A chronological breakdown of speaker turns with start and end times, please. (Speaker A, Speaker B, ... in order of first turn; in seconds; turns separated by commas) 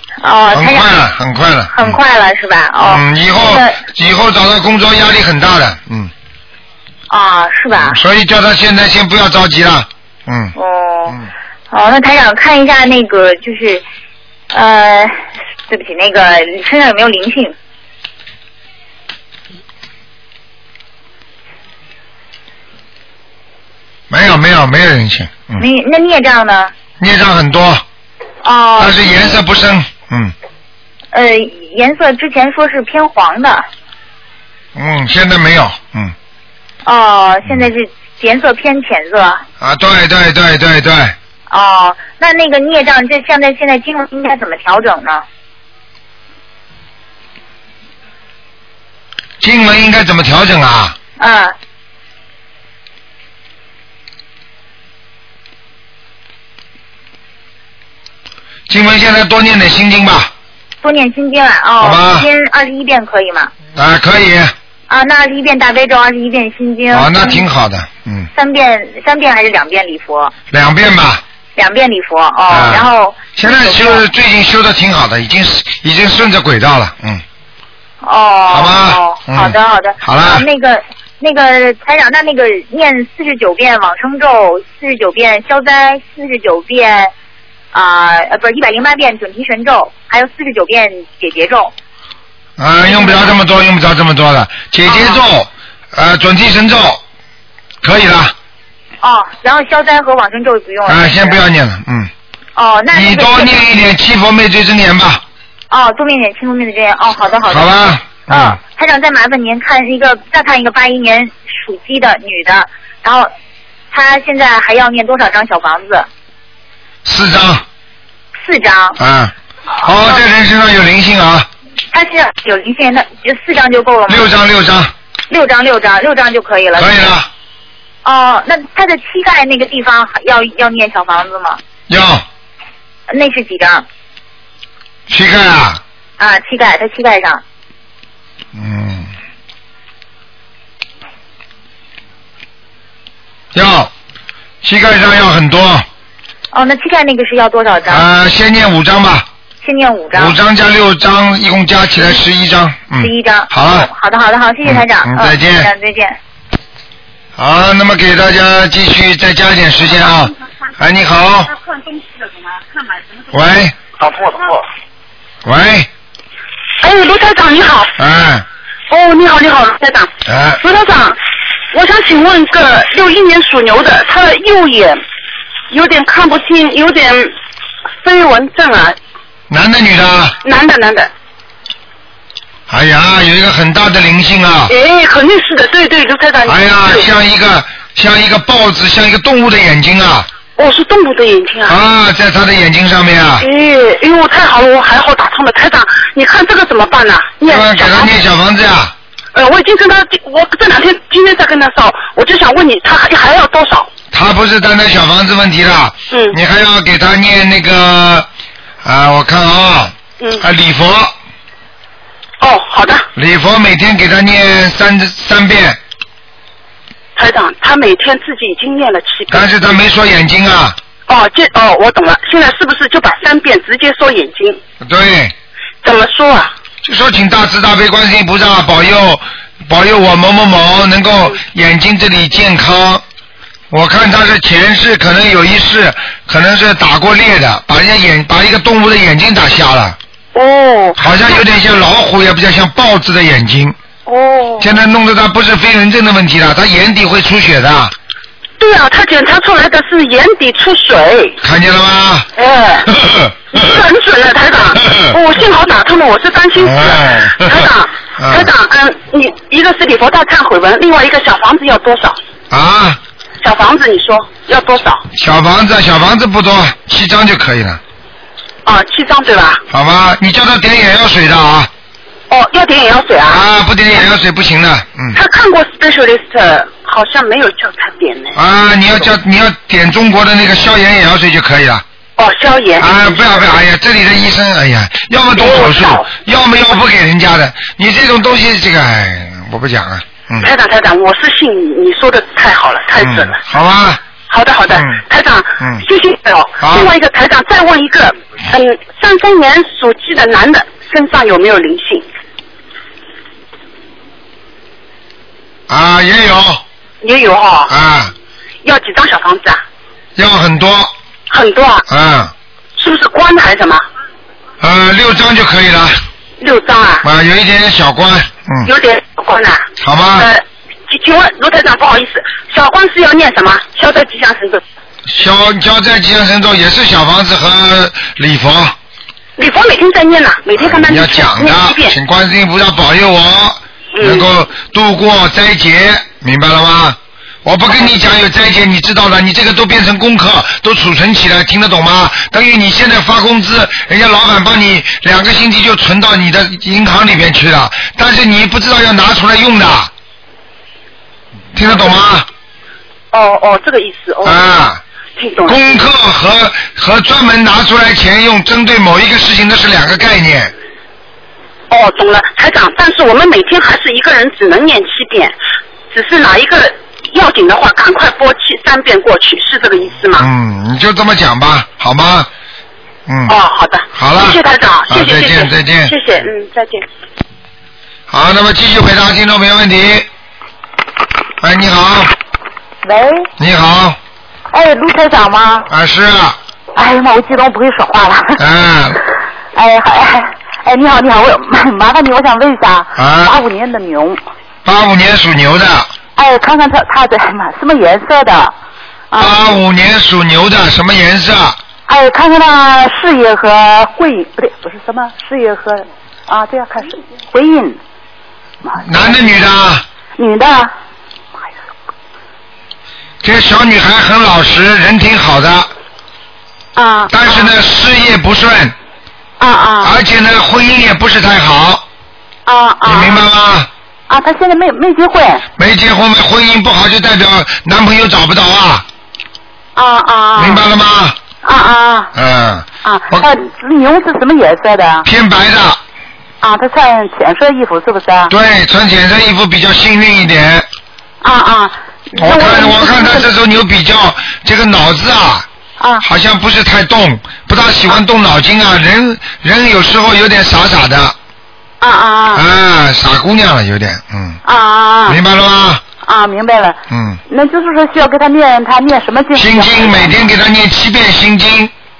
Speaker A: 0.2-1.0, Speaker B: 0.5-2.0, Speaker A: 1.7-3.8, Speaker B: 2.8-6.1, Speaker A: 7.1-8.0, Speaker B: 7.7-10.5, Speaker A: 10.6-11.2, Speaker A: 11.7-13.8, Speaker A: 14.5-17.5, Speaker B: 24.1-25.6, Speaker A: 25.6-26.7, Speaker B: 27.0-27.8, Speaker A: 28.4-29.3, Speaker B: 28.8-30.3, Speaker A: 31.1-33.6, Speaker B: 34.7-36.1, Speaker A: 36.8-39.4, Speaker B: 39.6-41.1, Speaker A: 41.5-45.2, Speaker B: 49.4-51.0, Speaker A: 51.2-51.5, Speaker B: 58.7-60.3, Speaker A: 60.8-63.5, Speaker B: 61.8-62.3, Speaker B: 63.7-64.5, Speaker A: 64.9-67.5, Speaker B: 66.9-68.3, Speaker A: 68.3-70.3, Speaker B: 70.5-71.2, Speaker A: 71.5-74.0, Speaker B: 72.5-77.2, Speaker A: 78.0-87.1, Speaker B: 78.5-80.5, Speaker A: 87.7-91.7, Speaker B: 92.6-97.0, Speaker A: 92.8-93.3, Speaker A: 94.8-95.2, Speaker B: 97.8-98.3, Speaker A: 99.0-101.4, Speaker B: 100.8-102.1, Speaker A: 102.5-103.6, Speaker B: 102.9-105.2, Speaker A: 105.7-113.3, Speaker B: 107.5-108.6, Speaker A: 113.9-116.1, Speaker B: 117.0-117.6, Speaker A: 118.4-119.0, Speaker B: 119.0-121.5, Speaker A: 121.9-124.3, Speaker B: 124.1-124.9, Speaker A: 125.3-127.1, Speaker B: 126.7-127.3, Speaker A: 128.0-131.6, Speaker B: 131.9-132.2, Speaker A: 133.1-133.8, Speaker B: 135.1-135.8, Speaker A: 136.2-137.4, Speaker B: 138.5-139.1, Speaker B: 143.5-143.9, Speaker B: 144.6-145.8, Speaker A: 146.5-148.0, Speaker B: 147.9-149.3, Speaker A: 149.6-150.4, Speaker B: 150.1-153.9, Speaker A: 153.0-156.2, Speaker B: 154.6-155.7, Speaker B: 157.4-161.5, Speaker B: 163.3-163.8, Speaker B: 165.4-165.9, Speaker C: 166.8-167.9, Speaker B: 168.0-168.4, Speaker C: 168.9-171.2, Speaker B: 170.2-170.6, Speaker C: 171.7-175.0, Speaker C: 175.7-177.3, Speaker C: 178.0-179.0, Speaker B: 179.5-180.4, Speaker C: 180.4-181.1, Speaker B: 182.7-184.7, Speaker C: 184.7-187.1, Speaker B: 186.5-190.3, Speaker C: 190.6-191.8, Speaker B: 191.7-193.4, Speaker C: 193.4-198.1, Speaker B: 197.5-198.9, Speaker C: 199.3-203.9, Speaker B: 204.1-208.3, Speaker C: 206.1-206.4, Speaker B: 208.8-211.1, Speaker C: 210.2-210.4, Speaker C: 212.4-213.1, Speaker B: 213.1-215.8, Speaker C: 217.2-219.8, Speaker B: 219.3-220.8, Speaker C: 221.1-224.6, Speaker B: 224.8-225.3, Speaker C: 225.8-226.5, Speaker B: 226.8-233.0, Speaker B: 233.7-240.0, Speaker C: 240.3-241.4, Speaker B: 241.0-243.8, Speaker C: 244.1-244.8, Speaker B: 244.6-247.9, Speaker C: 248.6-251.4, Speaker B: 251.4-252.3, Speaker C: 252.3-252.9, Speaker B: 252.9-253.6, Speaker C: 253.5-262.2, Speaker B: 256.6-257.7, Speaker B: 258.2-258.5, Speaker B: 262.5-263.0, Speaker C: 263.4-265.0, Speaker B: 265.1-267.8, Speaker C: 268.6-269.6, Speaker B: 269.7-271.7, Speaker C: 272.3-273.4, Speaker B: 273.3-275.1, Speaker C: 275.1-278.4, Speaker B: 278.4-281.8, Speaker C: 282.2-283.6, Speaker B: 282.8-290.5, Speaker C: 285.3-286.1, Speaker C: 290.4-293.4, Speaker B: 293.0-294.0, Speaker C: 294.3-302.0, Speaker B: 294.7-295.0, Speaker B: 296.6-296.9, Speaker B: 305.7-306.6, Speaker C: 307.0-307.7, Speaker B: 307.7-308.1, Speaker C: 308.6-309.6, Speaker B: 310.1-310.9, Speaker C: 311.3-311.9, Speaker B: 311.9-312.3, Speaker C: 312.8-313.8, Speaker B: 314.6-316.0, Speaker C: 316.4-317.1, Speaker B: 317.0-318.7, Speaker C: 318.6-319.6, Speaker B: 319.8-320.3, Speaker C: 320.2-324.6, Speaker B: 325.1-328.7, Speaker C: 329.4-332.0, Speaker B: 330.6-349.9, Speaker C: 333.9-334.3, Speaker C: 337.7-338.0, Speaker B: 351.5-352.3, Speaker C: 353.1-354.4, Speaker B: 354.2-354.8, Speaker C: 355.2-355.9, Speaker B: 355.4-360.5, Speaker C: 361.7-365.4, Speaker C: 365.9-370.3, Speaker B: 370.2-372.3, Speaker B: 373.1-373.3, Speaker C: 373.3-376.8, Speaker B: 373.9-375.9, Speaker B: 378.1-380.1, Speaker B: 381.4-382.1, Speaker D: 382.9-383.2, Speaker B: 383.4-384.0, Speaker D: 384.5-385.6, Speaker B: 385.7-386.4, Speaker D: 386.8-388.2, Speaker B: 388.4-389.0, Speaker D: 389.6-394.2, Speaker B: 392.9-393.4, Speaker B: 394.6-395.9, Speaker D: 396.2-398.5, Speaker B: 399.2-401.6, Speaker D: 401.9-407.8, Speaker B: 408.8-409.8, Speaker D: 410.2-410.7, Speaker B: 413.2-415.7, Speaker D: 416.8-417.4, Speaker B: 417.1-418.7, Speaker D: 419.4-419.9, Speaker B: 419.8-421.8, Speaker D: 422.5-423.1, Speaker B: 422.8-423.7, Speaker D: 424.1-425.4, Speaker B: 425.6-428.8, Speaker D: 429.8-430.6, Speaker B: 430.3-431.2, Speaker D: 431.4-432.1, Speaker B: 432.1-433.3, Speaker D: 432.9-435.0, Speaker B: 435.0-435.8, Speaker D: 436.4-438.3, Speaker B: 438.3-440.7, Speaker D: 441.2-443.2, Speaker B: 442.1-445.5, Speaker B: 446.0-451.1, Speaker D: 451.8-452.4, Speaker B: 452.3-454.4, Speaker D: 454.5-455.1, Speaker B: 455.0-455.8, Speaker D: 456.1-456.7, Speaker B: 456.9-457.2, Speaker D: 457.3-460.1, Speaker B: 459.3-461.7